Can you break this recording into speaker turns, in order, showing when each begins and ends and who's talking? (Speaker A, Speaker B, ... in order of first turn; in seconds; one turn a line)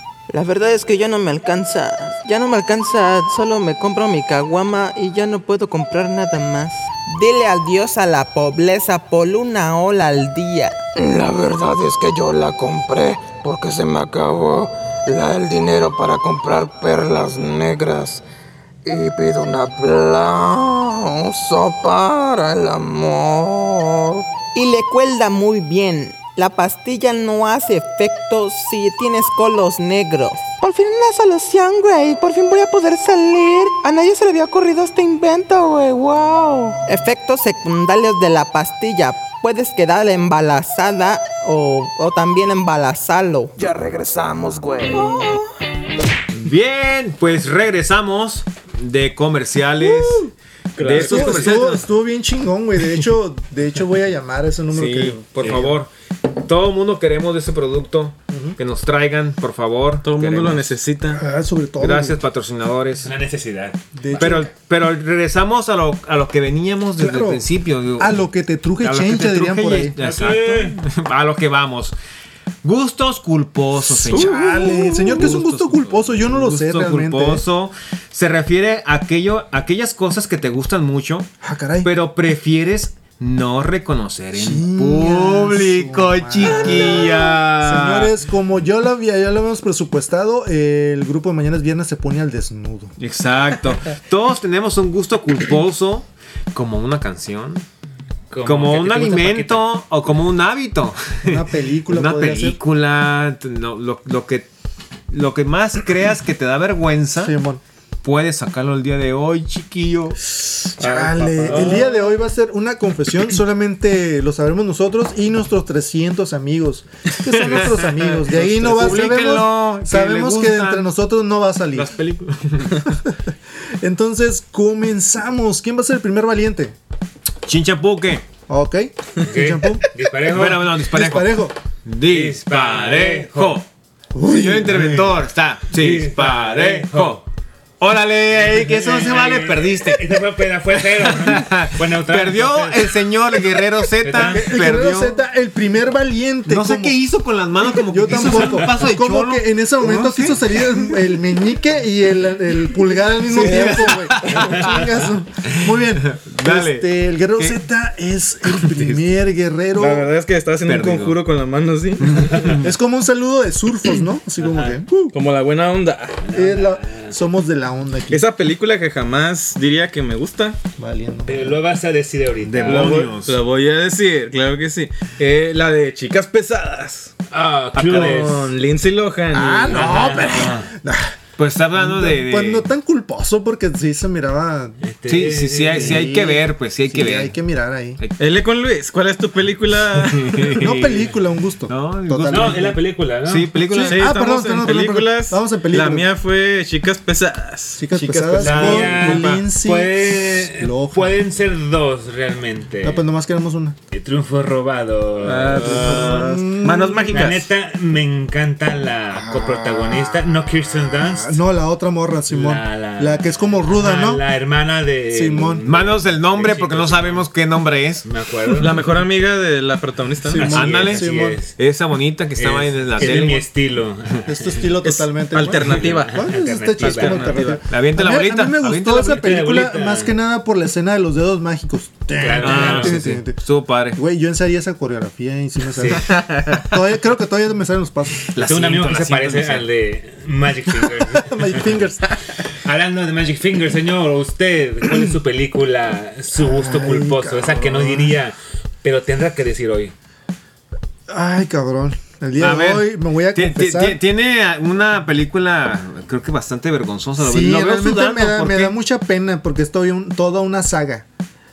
Speaker A: 0.3-10.8
Speaker B: 11.0-18.2
Speaker B: 18.9-24.2
Speaker A: 24.6-43.5
Speaker B: 43.6-45.4
Speaker C: 46.3-51.8
Speaker D: 49.8-50.3
Speaker E: 50.8-51.8
Speaker D: 50.9-55.6
Speaker E: 54.7-55.7
Speaker C: 54.9-60.8
Speaker D: 58.3-58.6
Speaker E: 60.0-61.2
Speaker D: 61.1-62.2
Speaker C: 61.8-63.1
Speaker F: 63.0-64.4
Speaker D: 64.0-64.5
Speaker C: 64.2-68.3
Speaker D: 67.0-67.4
Speaker D: 68.0-70.0
Speaker C: 68.8-72.0
Speaker F: 70.0-70.8
Speaker C: 72.6-74.4
Speaker D: 74.0-77.4
Speaker E: 74.1-75.2
Speaker C: 75.0-88.2
Speaker D: 81.4-81.9
Speaker D: 84.3-92.9
Speaker C: 93.0-97.7
Speaker F: 98.3-99.7
Speaker C: 98.4-104.5
Speaker D: 101.3-102.6
Speaker C: 105.1-107.3
Speaker D: 107.2-107.6
Speaker C: 108.0-110.2
Speaker D: 110.3-121.9
Speaker E: 110.8-112.1
Speaker C: 117.3-120.9
Speaker E: 118.3-118.8
Speaker C: 121.7-122.8
Speaker D: 122.8-126.8
Speaker C: 127.5-128.3
Speaker D: 128.5-129.8
Speaker F: 129.2-130.8
Speaker C: 130.3-133.7
Speaker D: 130.9-131.5
Speaker F: 132.1-133.6
Speaker D: 134.2-135.2
Speaker C: 134.2-137.2
Speaker F: 135.7-137.2
Speaker C: 137.8-140.2
Speaker F: 138.5-143.0
Speaker C: 140.9-145.2
Speaker F: 144.0-144.7
Speaker D: 144.1-146.9
Speaker C: 146.5-151.2
Speaker D: 147.6-160.1
Speaker C: 153.2-154.9
Speaker E: 153.4-153.8
Speaker F: 154.3-154.7
Speaker C: 155.7-157.6
Speaker C: 158.5-159.2
Speaker E: 159.8-162.3
Speaker C: 160.7-161.2
Speaker C: 162.0-162.7
Speaker D: 162.4-165.2
Speaker F: 164.4-164.8
Speaker E: 165.1-166.3
Speaker F: 166.2-167.1
Speaker D: 166.3-168.3
Speaker E: 168.1-170.6
Speaker D: 170.8-171.6
Speaker F: 171.3-173.0
Speaker C: 172.4-173.4
Speaker E: 172.7-177.1
Speaker F: 177.3-178.5
Speaker C: 177.8-178.3
Speaker E: 177.8-180.0
Speaker D: 179.3-181.2
Speaker F: 179.7-180.7
Speaker C: 180.3-180.6
Speaker C: 181.4-182.7
Speaker D: 181.8-184.8
Speaker F: 184.8-186.1
Speaker C: 185.1-187.3
Speaker D: 185.7-188.0
Speaker E: 188.2-190.6
Speaker C: 190.1-191.1
Speaker D: 190.5-192.8
Speaker C: 191.7-192.7
Speaker F: 192.3-193.5
Speaker C: 193.2-194.1
Speaker D: 193.7-196.1
Speaker E: 193.8-199.4
Speaker D: 197.8-201.2
Speaker F: 198.4-203.0
Speaker D: 202.8-203.8
Speaker F: 203.9-205.9
Speaker E: 205.2-207.4
Speaker D: 205.6-207.3
Speaker C: 205.8-207.5
Speaker F: 207.1-211.4
Speaker D: 209.1-210.2
Speaker D: 210.9-214.2
Speaker F: 212.3-217.2
Speaker D: 215.1-215.7
Speaker C: 215.7-218.1
Speaker F: 218.1-218.8
Speaker E: 218.6-220.5
Speaker D: 220.2-221.4
Speaker F: 220.3-221.6
Speaker C: 220.5-223.5
Speaker F: 222.4-224.6
Speaker D: 223.0-223.3
Speaker D: 224.3-233.4
Speaker E: 224.8-226.3
Speaker F: 225.8-227.4
Speaker E: 226.8-227.6
Speaker C: 227.7-229.4
Speaker F: 229.1-230.2
Speaker F: 232.2-233.1
Speaker C: 232.4-234.0
Speaker E: 232.6-233.0
Speaker D: 233.9-238.3
Speaker F: 235.8-236.1
Speaker E: 236.1-236.6
Speaker C: 238.3-239.7
Speaker F: 238.4-241.8
Speaker D: 241.2-242.2
Speaker F: 242.7-249.9
Speaker D: 244.9-245.1
Speaker D: 246.3-248.2
Speaker D: 251.1-254.0
Speaker C: 252.4-258.8
Speaker D: 257.2-261.1